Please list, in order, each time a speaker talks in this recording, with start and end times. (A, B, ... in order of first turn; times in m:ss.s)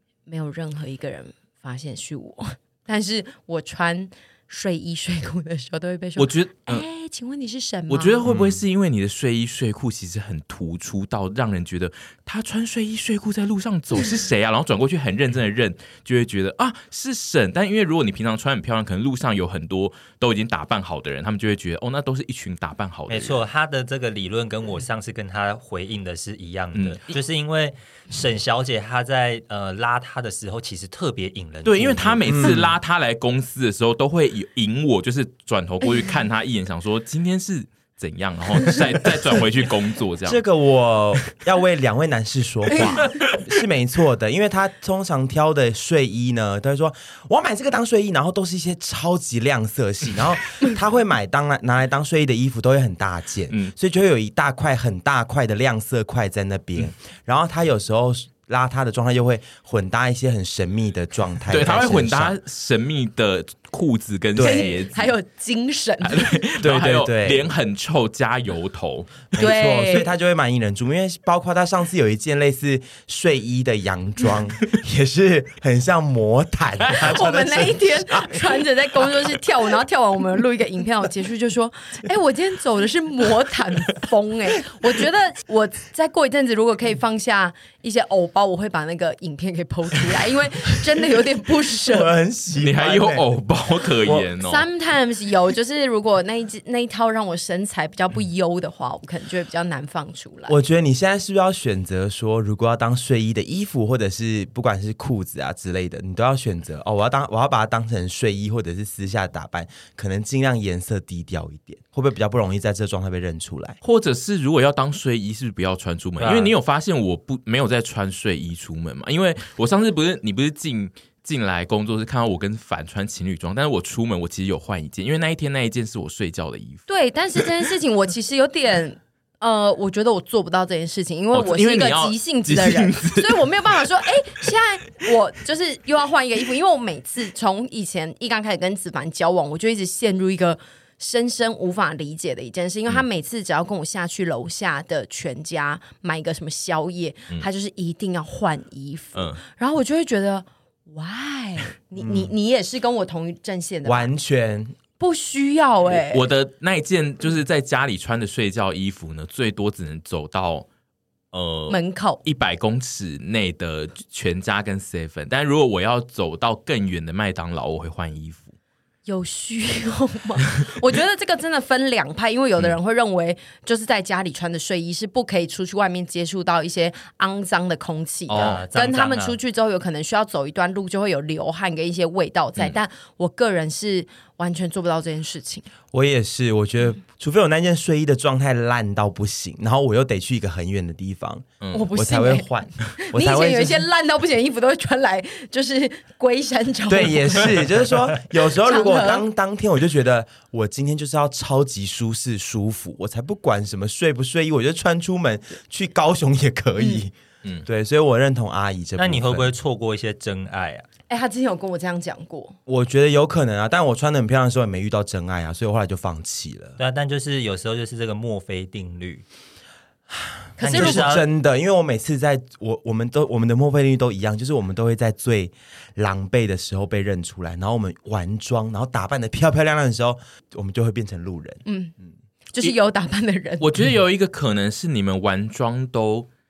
0:00.3-0:08.2 A
0:06.2-0:06.8 B
0:07.9-0:23.4 B
0:08.2-0:08.6 C
0:23.1-0:32.5 D
0:26.7-0:27.1 B
0:31.6-0:40.4 B
0:32.3-0:32.7 C
0:40.2-1:02.4 C
0:43.0-0:43.4 B
1:01.5-1:05.1 B
1:04.4-1:04.8 C
1:04.4-1:06.4 A
1:06.0-1:09.4 B
1:06.6-1:07.5 C
1:09.3-1:19.3 C
1:09.4-1:10.1 A
1:17.0-1:32.1 A
1:31.9-1:33.3 C
1:32.6-1:34.6 B
1:34.0-1:34.3 C
1:34.4-1:40.6 A
1:40.5-1:53.8 C
1:53.8-2:06.9 B
1:56.2-1:56.5 D
2:06.9-2:34.1 A
2:11.3-2:13.5 B
2:32.0-2:32.3 C
2:33.8-2:34.8 C
2:35.0-2:36.2 A
2:35.9-2:40.7 B
2:41.3-2:48.5 B
2:41.7-2:42.2 A
2:49.1-3:05.7 A
2:58.3-2:58.6 B
2:58.3-2:59.4 D
3:05.9-3:13.9 C
3:11.6-3:11.9 B
3:11.7-3:17.8 A
3:16.9-3:27.1 C
3:18.6-3:19.2 A
3:27.7-3:29.6 C
3:29.0-3:30.9 D
3:31.1-3:32.6 A
3:32.7-3:36.8 C
3:36.8-3:39.2 D
3:40.1-3:51.6 C
3:40.6-3:41.2 A
3:40.6-3:41.3 D
3:51.7-3:51.9 A
3:52.5-3:53.7 A
3:53.6-3:56.3 B